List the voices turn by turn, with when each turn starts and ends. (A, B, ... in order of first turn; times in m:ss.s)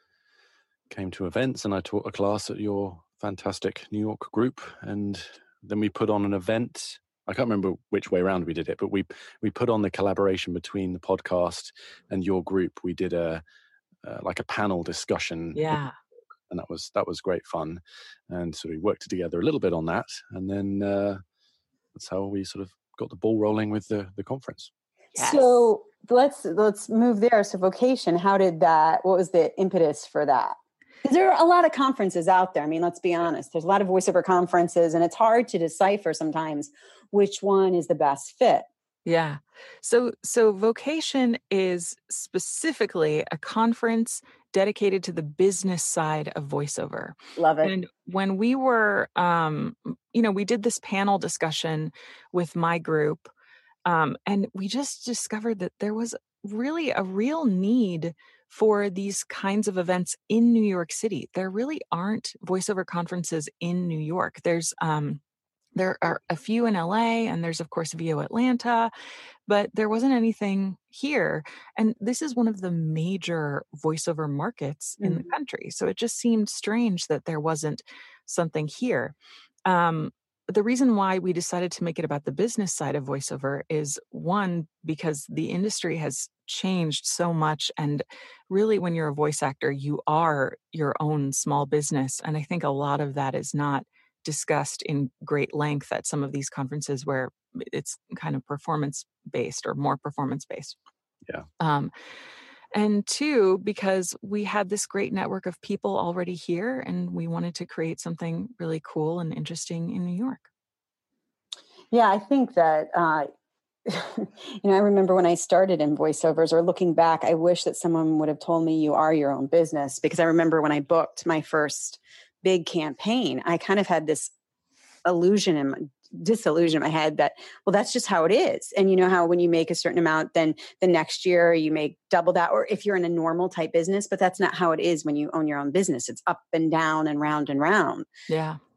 0:00.9-0:13.4 A
0:14.0-0:15.8 A
0:15.5-0:15.9 B
0:16.5-0:21.2 A
0:21.9-0:24.7 A
0:25.1-0:25.6 B
0:25.2-0:38.6 C
0:39.0-0:53.3 B
0:47.4-0:47.7 C
0:53.8-1:05.2 B
1:05.8-1:08.9 B
1:09.5-1:19.1 B
1:15.0-1:15.2 C
1:19.6-1:40.8 B
1:41.6-1:41.9 B
1:42.7-1:50.5 B
1:51.9-1:53.3 C
1:53.8-2:04.3 C
2:05.0-2:18.1 C
2:18.3-2:18.6 B